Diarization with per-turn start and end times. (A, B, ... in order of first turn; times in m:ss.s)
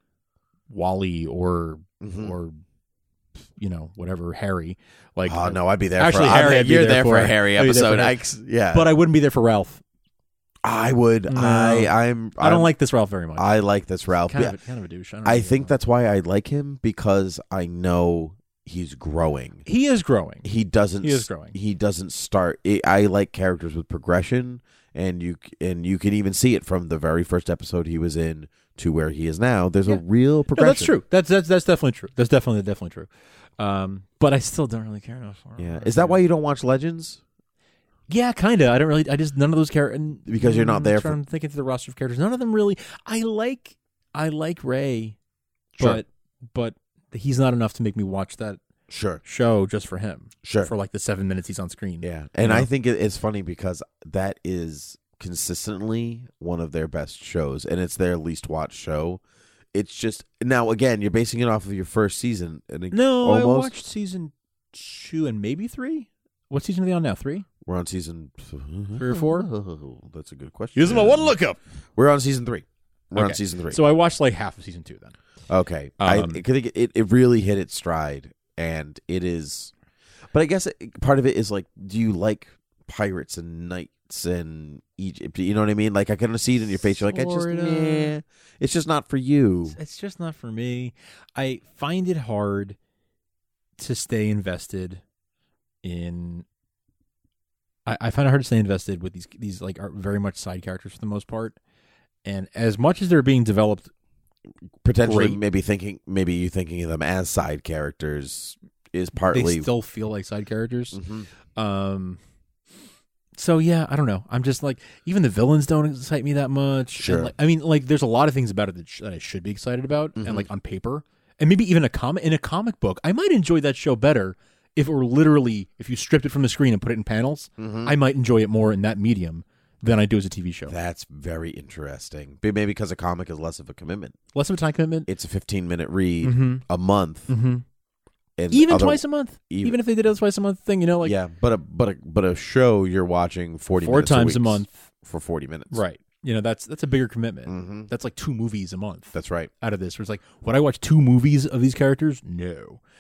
0:00.7-0:02.6 A
0:02.0-0:02.4 B
0:03.6-0:09.8 A
0:05.2-0:08.9 B
0:10.6-0:12.7 B
0:11.3-0:13.5 A
0:13.4-0:14.6 B
0:14.3-0:15.7 A
0:15.2-0:19.7 B
0:19.6-0:20.5 A
0:20.4-0:31.0 B
0:21.0-0:21.6 A
0:30.5-0:36.2 A
0:35.6-0:37.2 B
0:38.1-0:45.2 A
0:40.3-0:41.2 B
0:45.8-0:48.6 A
0:45.8-0:46.0 B
0:48.9-0:49.2 B
0:49.2-0:52.7 A
0:50.4-0:50.7 B
0:52.0-0:59.2 B
0:59.7-1:03.8 B
1:02.9-1:07.5 A
1:07.6-1:11.4 B
1:09.0-1:09.5 A
1:10.8-1:11.6 A
1:12.0-1:13.9 B
1:13.2-1:15.2 A
1:15.5-1:19.7 B
1:16.0-1:16.4 A
1:20.3-1:29.8 B
1:27.0-1:28.1 A
1:29.7-1:32.8 A
1:33.8-1:35.0 A
1:35.8-1:36.4 A
1:37.9-1:41.6 A
1:42.2-1:43.9 A
1:44.8-1:49.7 B
1:45.0-1:45.4 A
1:49.3-1:51.0 A
1:50.9-1:51.3 B
1:51.6-1:52.2 A
1:53.4-2:10.7 A
1:57.0-1:57.3 B
2:00.2-2:00.5 B
2:07.6-2:08.0 B
2:10.7-2:14.2 B
2:14.4-2:15.1 A
2:15.1-2:17.3 B
2:16.2-2:16.6 A
2:17.3-2:17.6 A
2:18.4-2:19.8 B
2:18.5-2:21.2 A
2:21.0-2:25.8 B
2:23.8-2:24.9 A
2:25.7-2:32.8 A
2:27.5-2:27.9 B
2:29.1-2:29.5 B